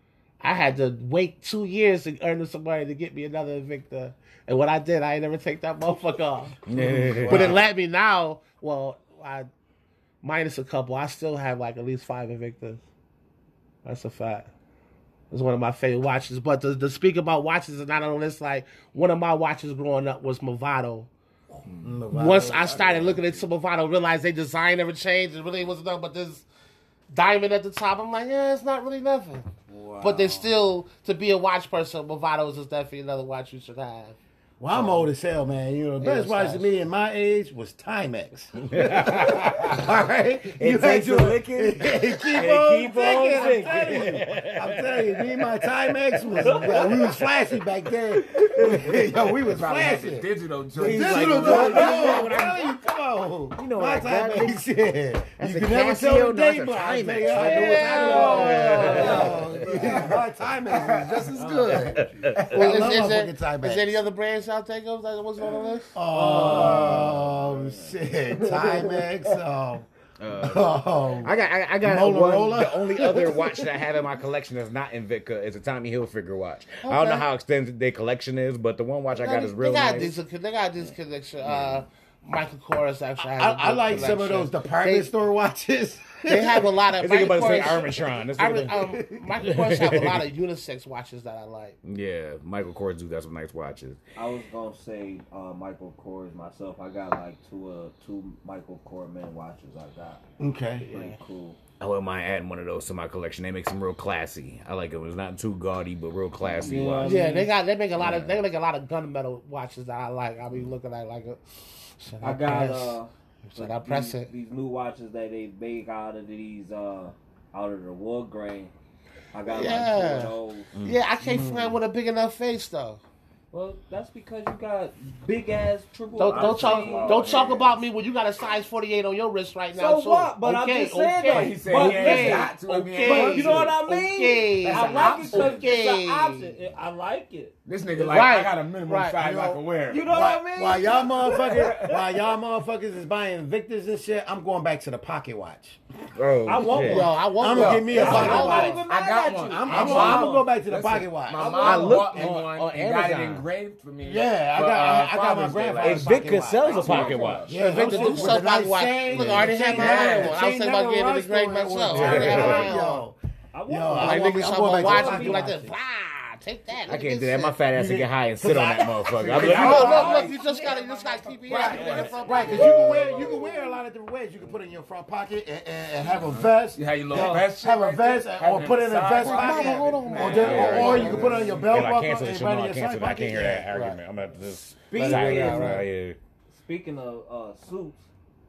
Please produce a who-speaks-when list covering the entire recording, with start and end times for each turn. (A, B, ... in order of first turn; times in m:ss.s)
0:00.4-0:06.6 A
0:06.7-0:07.6 B
0:06.7-0:07.6 C
0:07.2-0:09.5 A
0:10.2-0:12.8 A
0:13.8-0:14.5 A
0:15.3-0:21.1 A
0:21.6-0:23.2 D
0:21.8-0:23.2 B
0:22.1-0:26.4 A
0:27.1-0:29.4 A
0:30.0-0:34.1 A
0:34.6-1:04.0 B
0:34.7-0:35.1 C
0:36.0-0:36.7 C
0:38.6-0:39.9 C
0:40.5-0:47.3 C
0:43.3-0:43.8 E
0:46.4-0:47.1 E
0:48.2-0:49.0 C
0:49.4-0:51.8 D
0:50.8-0:52.8 C
0:51.2-0:52.5 E
0:53.6-0:54.6 C
0:55.4-0:59.6 C
0:57.3-0:59.2 A
0:57.6-1:00.0 E
0:59.0-1:02.4 D
1:01.3-1:02.3 E
1:02.0-1:02.8 C
1:02.5-1:06.0 A
1:05.9-1:13.9 B
1:06.1-1:09.0 E
1:06.4-1:07.2 C
1:10.2-1:20.2 C
1:16.8-1:17.2 A
1:19.1-1:25.1 A
1:21.4-1:21.8 C
1:23.2-1:26.7 B
1:26.2-1:31.8 A
1:27.0-1:28.8 C
1:28.7-1:29.2 B
1:29.4-1:30.3 C
1:31.8-1:34.0 C
1:34.2-1:40.2 E
1:40.4-1:40.9 B
1:40.8-1:41.2 A
1:40.8-1:41.6 E
1:41.8-1:47.2 C
1:46.4-1:47.5 E
1:47.0-1:51.4 A
1:48.0-1:48.4 C
1:52.0-1:54.3 A
1:52.2-1:58.7 E
1:59.3-2:00.7 E
1:59.4-2:03.0 A
2:00.7-2:01.0 C
2:01.2-2:01.8 B
2:03.5-2:07.4 E
2:06.2-2:16.5 A
2:06.3-2:07.8 D
2:09.7-2:17.5 E
2:11.3-2:13.7 D
2:13.0-2:13.6 B
2:14.6-2:15.7 D
2:17.6-2:20.1 D
2:18.0-2:19.2 A
2:19.2-2:25.8 B
2:19.9-2:22.2 E
2:26.1-2:27.1 C
2:26.4-2:27.1 E
2:26.8-2:28.7 A
2:27.4-2:28.8 B
2:27.4-2:38.3 D
2:27.9-2:30.5 E
2:28.1-2:28.4 C
2:29.5-2:31.6 B
2:31.3-2:32.0 E
2:31.5-2:33.4 C
2:34.0-2:43.2 B
2:35.8-2:38.4 C
2:36.8-2:37.1 E
2:37.5-2:43.0 A
2:39.0-2:39.8 C
2:39.7-2:40.5 D
2:41.9-2:42.7 C
2:43.5-2:45.5 E
2:43.7-2:45.7 B
2:43.9-2:47.6 A
2:46.8-2:50.2 C
2:47.7-2:50.3 B
2:49.2-2:53.4 D
2:49.4-2:52.9 A
2:51.5-3:04.0 B
2:52.0-2:53.4 E
2:56.0-3:01.7 D
2:57.1-2:57.5 E
2:58.4-2:59.3 E
2:59.2-3:01.3 A
3:00.1-3:01.3 E
3:00.4-3:06.2 C
3:04.8-3:05.8 B
3:05.0-3:05.8 E
3:05.0-3:05.8 A
3:06.5-3:08.0 E